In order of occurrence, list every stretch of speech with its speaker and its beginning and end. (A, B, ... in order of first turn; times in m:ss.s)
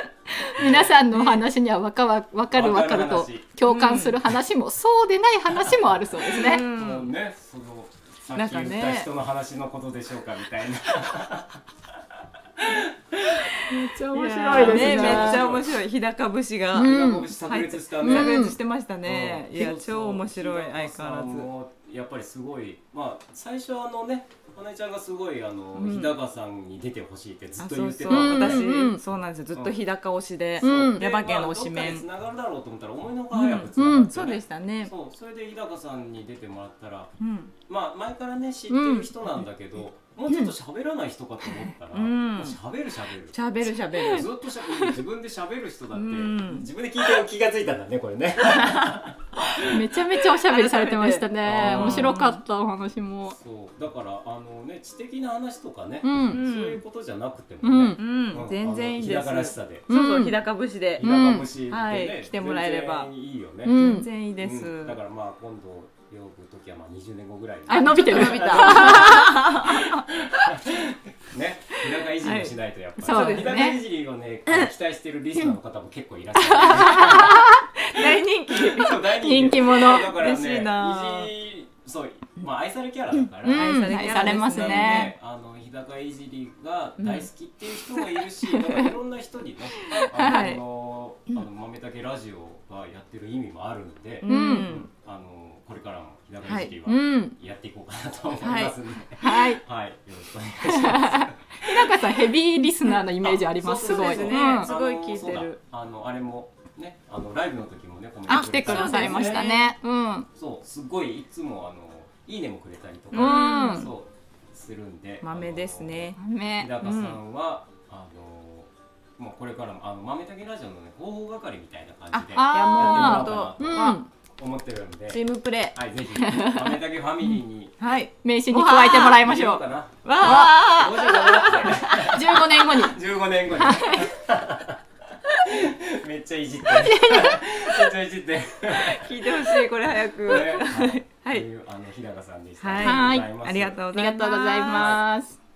0:00.4-0:06.6 A
0:00.6-0:00.9 B
0:01.1-0:01.4 C
0:02.5-0:03.5 B
0:03.7-0:04.2 C
0:06.3-0:07.1 C
0:06.3-0:13.5 B
0:08.3-0:09.1 C
0:13.7-0:15.4 A
0:14.1-0:21.5 C
0:14.5-0:15.7 B
0:16.7-0:28.7 B
0:16.7-0:17.3 A
0:18.0-0:18.6 A
0:25.7-0:26.1 C
0:27.6-0:32.0 C
0:28.1-0:29.0 A
0:29.5-0:29.8 B
0:30.6-0:37.1 B
0:30.6-0:31.0 A
0:33.3-0:34.9 C
0:33.8-0:34.1 A
0:37.2-0:37.5 C
0:37.6-0:50.0 B
0:38.7-0:39.1 A
0:41.9-0:42.6 C
0:43.3-0:44.3 C
0:45.9-0:46.7 C
0:49.6-0:53.4 A
0:50.4-0:52.4 C
0:51.4-0:52.2 B
0:53.3-0:59.9 B
0:56.0-0:56.4 A
0:56.3-0:56.8 C
0:57.6-0:58.0 A
0:58.0-1:01.1 C
0:59.9-1:00.4 A
1:01.0-1:03.8 B
1:01.0-1:01.5 A
1:01.7-1:03.1 C
1:03.6-1:04.1 A
1:03.7-1:05.0 C
1:04.4-1:42.1 B
1:07.7-1:09.4 A
1:07.7-1:10.0 C
1:12.1-1:13.6 C
1:13.0-1:13.8 A
1:16.6-1:19.1 C
1:16.7-1:17.6 A
1:19.0-1:20.1 A
1:19.8-1:21.3 C
1:23.4-1:25.1 A
1:23.4-1:25.1 C
1:27.0-1:27.3 C
1:30.1-1:30.6 C
1:34.2-1:34.9 C
1:34.2-1:34.7 A
1:36.4-1:36.7 C
1:36.8-1:37.4 A
1:38.4-1:38.8 C
1:39.2-1:39.6 A
1:40.6-1:44.7 A
1:43.2-1:49.5 B
1:43.7-1:45.6 C
1:48.3-1:49.7 C
1:48.3-1:50.3 A
1:50.3-2:07.8 B
1:53.1-1:53.9 C
1:53.1-1:53.9 A
1:55.2-1:56.2 C
1:56.2-1:56.7 A
1:56.8-1:57.2 C
2:02.1-2:04.0 C
2:02.3-2:04.1 A
2:05.1-2:05.8 C
2:06.2-2:06.7 A
2:07.8-2:09.2 C
2:08.2-2:09.6 A
2:08.9-2:19.7 B
2:10.0-2:12.2 C
2:10.2-2:13.0 A
2:13.6-2:14.1 A
2:16.7-2:17.4 A
2:18.7-2:21.5 C
2:20.2-2:23.8 B
2:22.6-2:25.0 C
2:22.8-2:23.4 A
2:23.9-2:25.4 A
2:24.7-2:25.0 B